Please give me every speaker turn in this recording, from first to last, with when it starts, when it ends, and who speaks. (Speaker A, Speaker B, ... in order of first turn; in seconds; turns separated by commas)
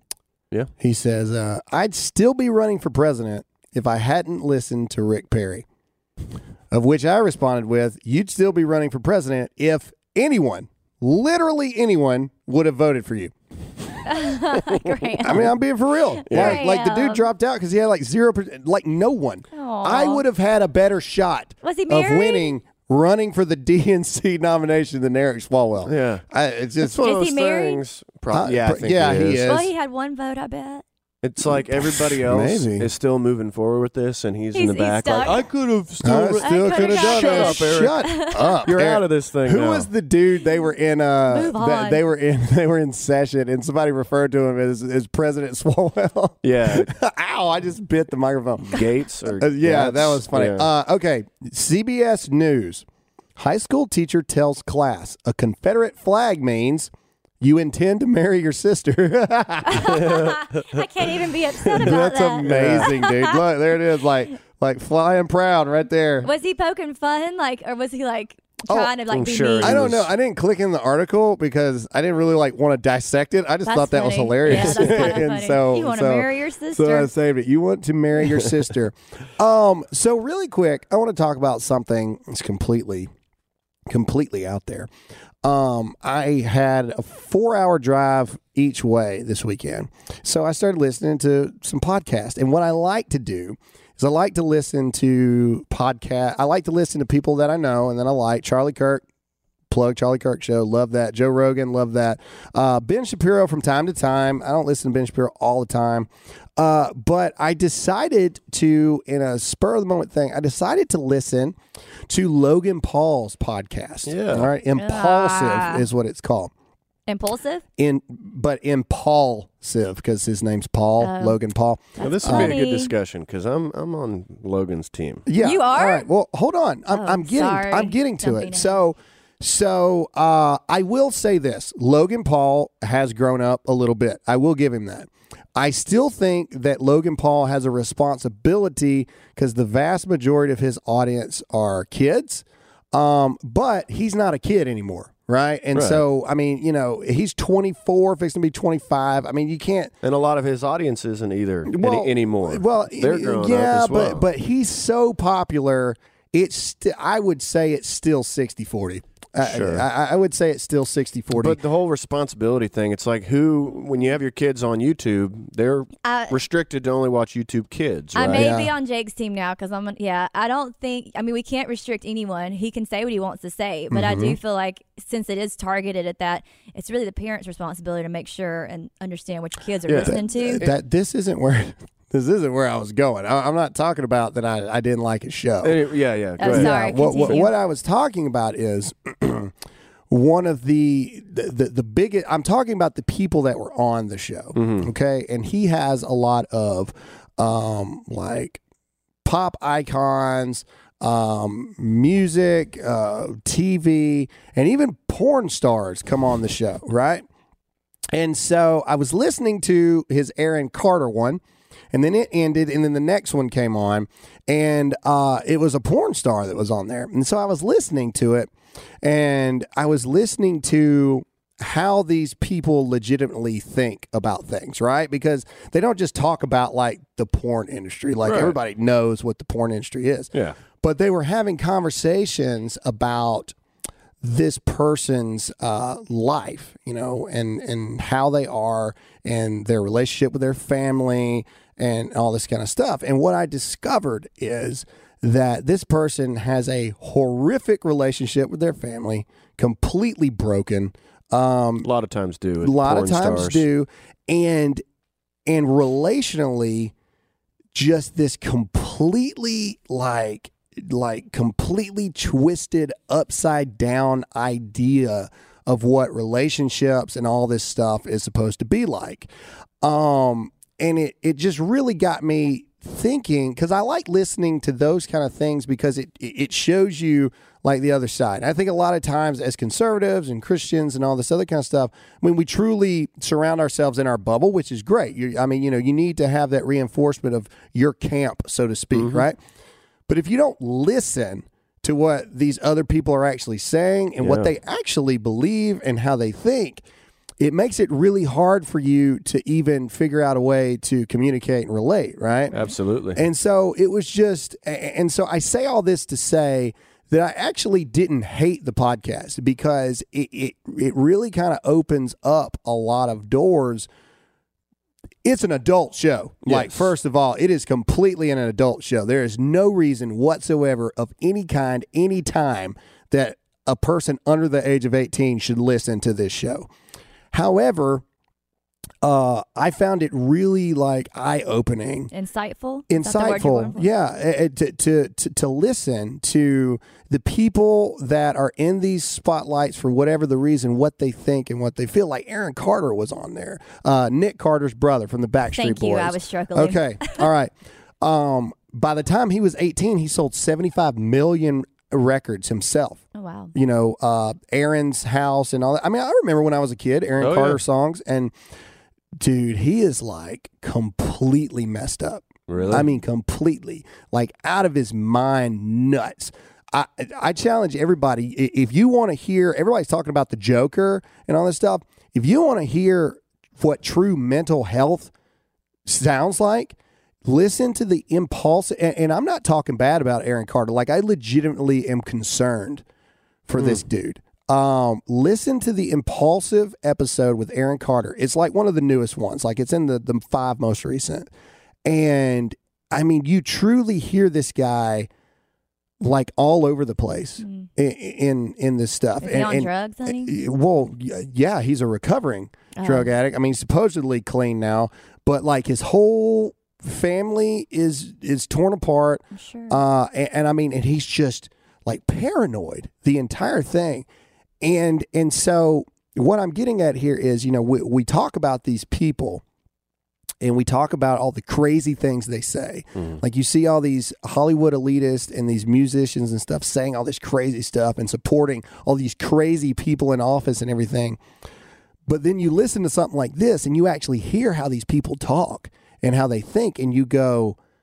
Speaker A: 0.8-5.7, Speaker A: 6.7-13.3, Speaker B: 14.0-15.5, Speaker A: 15.2-27.0, Speaker B: 16.1-17.2, Speaker C: 16.3-16.6, Speaker B: 19.5-20.2, Speaker B: 21.6-22.6, Speaker C: 25.9-26.2, Speaker C: 26.8-29.5, Speaker B: 27.0-27.8, Speaker A: 28.3-29.7, Speaker B: 29.5-30.8, Speaker C: 31.2-39.9, Speaker A: 31.4-32.9, Speaker B: 34.5-35.4, Speaker A: 36.0-48.9, Speaker B: 36.4-38.7, Speaker B: 41.3-42.0, Speaker C: 46.4-46.9, Speaker C: 48.7-50.7, Speaker A: 49.4-52.9, Speaker A: 53.4-60.1, Speaker B: 59.7-63.4, Speaker C: 59.8-60.9, Speaker C: 61.7-62.9, Speaker A: 61.8-66.3, Speaker B: 66.2-69.8, Speaker A: 68.7-69.0, Speaker C: 69.1-70.1, Speaker A: 69.6-83.1, Speaker B: 73.7-77.1, Speaker C: 74.5-75.2, Speaker A: 83.9-84.9, Speaker A: 85.4-99.0, Speaker A: 99.7-111.6, Speaker A: 112.1-116.5, Speaker C: 114.1-114.5, Speaker B: 114.8-115.8, Speaker B: 117.1-117.6, Speaker A: 117.8-122.6, Speaker B: 121.0-121.4, Speaker B: 122.0-122.9, Speaker C: 122.0-125.3, Speaker A: 125.3-149.9, Speaker B: 125.4-126.1, Speaker B: 126.9-128.8, Speaker C: 145.8-146.1, Speaker C: 150.0-154.2, Speaker A: 151.7-161.6, Speaker C: 159.4-159.9, Speaker C: 161.3-168.6, Speaker B: 166.0-166.4, Speaker B: 168.2-180.7, Speaker A: 168.3-168.7, Speaker A: 173.9-174.4, Speaker C: 179.9-180.8, Speaker A: 180.1-185.8, Speaker C: 185.6-187.4, Speaker B: 186.4-187.5, Speaker A: 186.4-189.5, Speaker A: 190.1-198.6, Speaker C: 194.6-194.9, Speaker A: 199.2-207.2, Speaker A: 208.1-211.4, Speaker A: 211.9-218.5, Speaker A: 219.0-233.6, Speaker C: 228.2-228.6, Speaker A: 234.2-251.9, Speaker C: 251.8-253.7, Speaker A: 252.6-254.8, Speaker A: 255.5-256.9, Speaker A: 257.7-269.3, Speaker A: 269.8-289.4, Speaker C: 288.9-289.2, Speaker A: 290.1-296.8, Speaker C: 294.2-294.5, Speaker A: 297.4-302.6, Speaker C: 302.5-303.2, Speaker A: 303.1-313.9, Speaker A: 315.2-326.7, Speaker C: 316.4-316.9, Speaker A: 327.3-328.0, Speaker A: 329.0-332.1, Speaker B: 332.1-333.8, Speaker A: 332.9-353.0, Speaker B: 345.5-347.3, Speaker B: 353.1-353.5, Speaker A: 353.5-358.3, Speaker C: 357.2-357.6, Speaker A: 359.2-375.1, Speaker C: 362.5-362.9, Speaker A: 375.9-382.8, Speaker A: 383.5-391.3, Speaker C: 383.6-383.8, Speaker A: 391.9-395.1, Speaker A: 396.0-414.1, Speaker B: 397.4-397.7, Speaker B: 399.2-400.4, Speaker B: 402.8-403.1, Speaker B: 409.3-409.8, Speaker A: 414.6-419.4, Speaker A: 420.4-431.2, Speaker A: 432.1-437.6